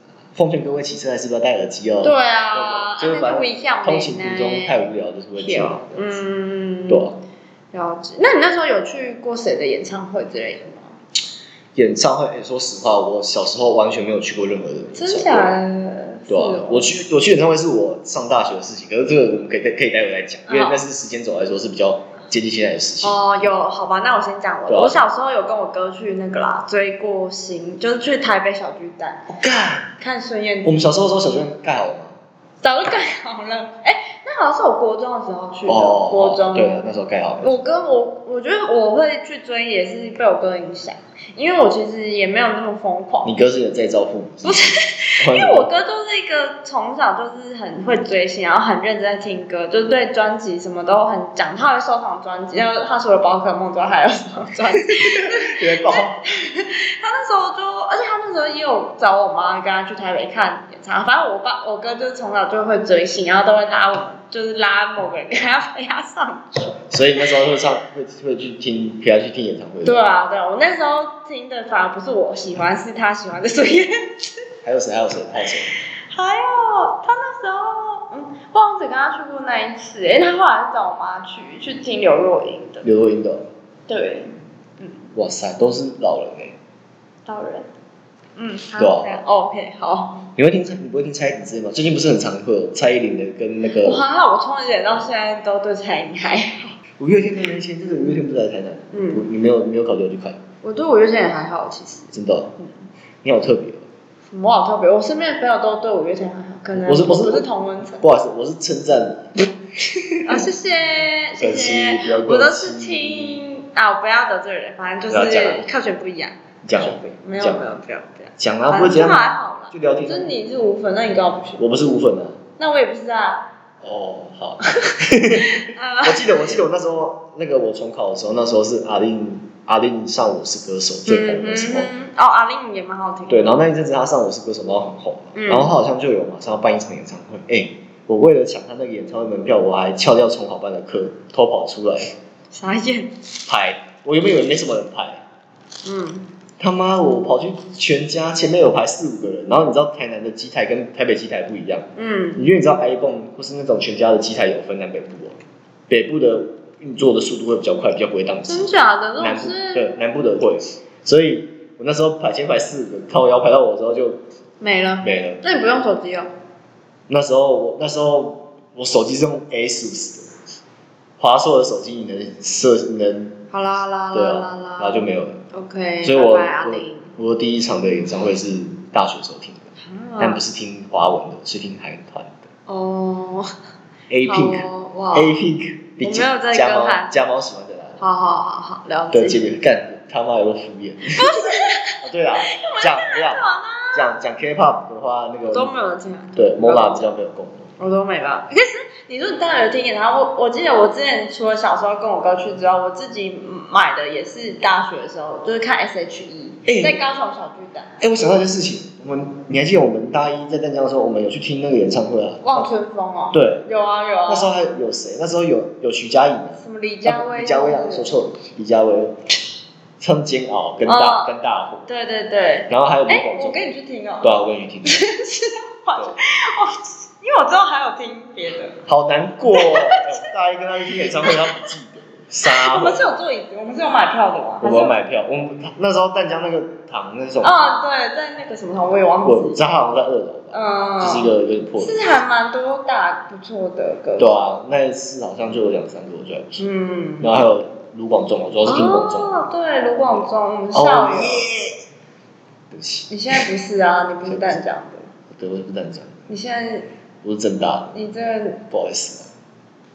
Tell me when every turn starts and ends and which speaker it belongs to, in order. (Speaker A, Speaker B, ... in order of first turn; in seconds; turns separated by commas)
Speaker A: 0.3-6.2, Speaker B: 2.0-7.2, Speaker A: 6.9-7.2, Speaker B: 7.7-11.0, Speaker A: 11.8-15.6, Speaker B: 14.9-17.0, Speaker A: 16.3-23.2, Speaker B: 20.5-20.8, Speaker B: 23.0-29.3, Speaker A: 24.7-25.0, Speaker A: 29.3-29.9, Speaker B: 30.0-31.5, Speaker A: 30.6-32.2, Speaker B: 32.6-36.8, Speaker A: 35.7-37.6, Speaker B: 37.4-43.3, Speaker A: 43.2-45.7, Speaker B: 44.4-66.8, Speaker A: 54.9-56.2, Speaker A: 66.9-70.0, Speaker B: 69.8-74.4, Speaker A: 74.6-75.7, Speaker B: 76.1-82.9, Speaker A: 82.8-83.5, Speaker B: 83.9-85.0, Speaker A: 85.2-86.6, Speaker B: 87.3-87.7, Speaker B: 88.4-90.2, Speaker A: 88.8-89.2, Speaker A: 90.4-94.0, Speaker B: 93.8-96.8, Speaker A: 97.0-100.4, Speaker B: 98.9-99.3, Speaker B: 100.6-102.7, Speaker A: 102.1-102.5, Speaker A: 103.2-103.8, Speaker B: 104.3-108.1, Speaker A: 106.8-107.5, Speaker A: 108.0-110.5, Speaker B: 110.2-121.8, Speaker A: 111.4-113.5, Speaker A: 115.1-115.7, Speaker A: 116.6-117.6, Speaker A: 118.4-120.3, Speaker A: 121.6-122.4, Speaker B: 122.6-123.5, Speaker A: 123.8-131.9, Speaker B: 124.8-126.6, Speaker B: 131.1-133.7, Speaker A: 133.3-142.1, Speaker B: 135.3-135.8, Speaker B: 142.5-143.2, Speaker A: 143.5-145.2, Speaker B: 145.8-146.3, Speaker A: 146.6-155.4, Speaker B: 152.0-152.5, Speaker A: 155.9-164.2, Speaker B: 158.5-159.9, Speaker B: 164.6-166.3, Speaker A: 165.0-165.4, Speaker A: 167.1-170.4, Speaker A: 171.2-173.4, Speaker B: 173.5-177.1, Speaker A: 174.1-175.4, Speaker A: 176.0-179.7, Speaker B: 179.8-180.4, Speaker A: 180.2-182.4, Speaker B: 182.7-183.5, Speaker A: 184.1-188.0, Speaker B: 184.2-185.3, Speaker B: 186.0-187.1, Speaker B: 188.0-189.4, Speaker A: 189.1-191.5, Speaker B: 191.1-194.1, Speaker A: 192.0-195.7, Speaker B: 195.5-197.1, Speaker A: 196.4-197.7, Speaker B: 197.8-207.9, Speaker A: 206.7-207.0, Speaker A: 208.0-212.7, Speaker B: 212.4-214.5, Speaker A: 213.3-213.7, Speaker A: 214.3-219.2, Speaker B: 216.6-218.2, Speaker A: 220.0-221.9, Speaker B: 220.9-221.3, Speaker B: 221.9-228.8, Speaker A: 222.7-223.7, Speaker A: 224.2-225.0, Speaker A: 228.9-233.1, Speaker B: 229.5-230.2, Speaker B: 231.0-231.7, Speaker B: 232.4-235.0, Speaker A: 234.6-237.7, Speaker B: 237.4-239.6, Speaker A: 239.2-242.1, Speaker B: 240.5-244.3, Speaker A: 244.2-246.7, Speaker B: 246.6-247.4, Speaker A: 247.2-249.4, Speaker B: 248.7-251.5, Speaker A: 250.7-251.8, Speaker A: 252.7-253.4, Speaker B: 253.1-255.1, Speaker A: 254.3-254.6, Speaker A: 255.3-256.2, Speaker B: 256.3-256.9, Speaker A: 257.2-257.9, Speaker B: 257.9-258.6, Speaker A: 258.7-259.3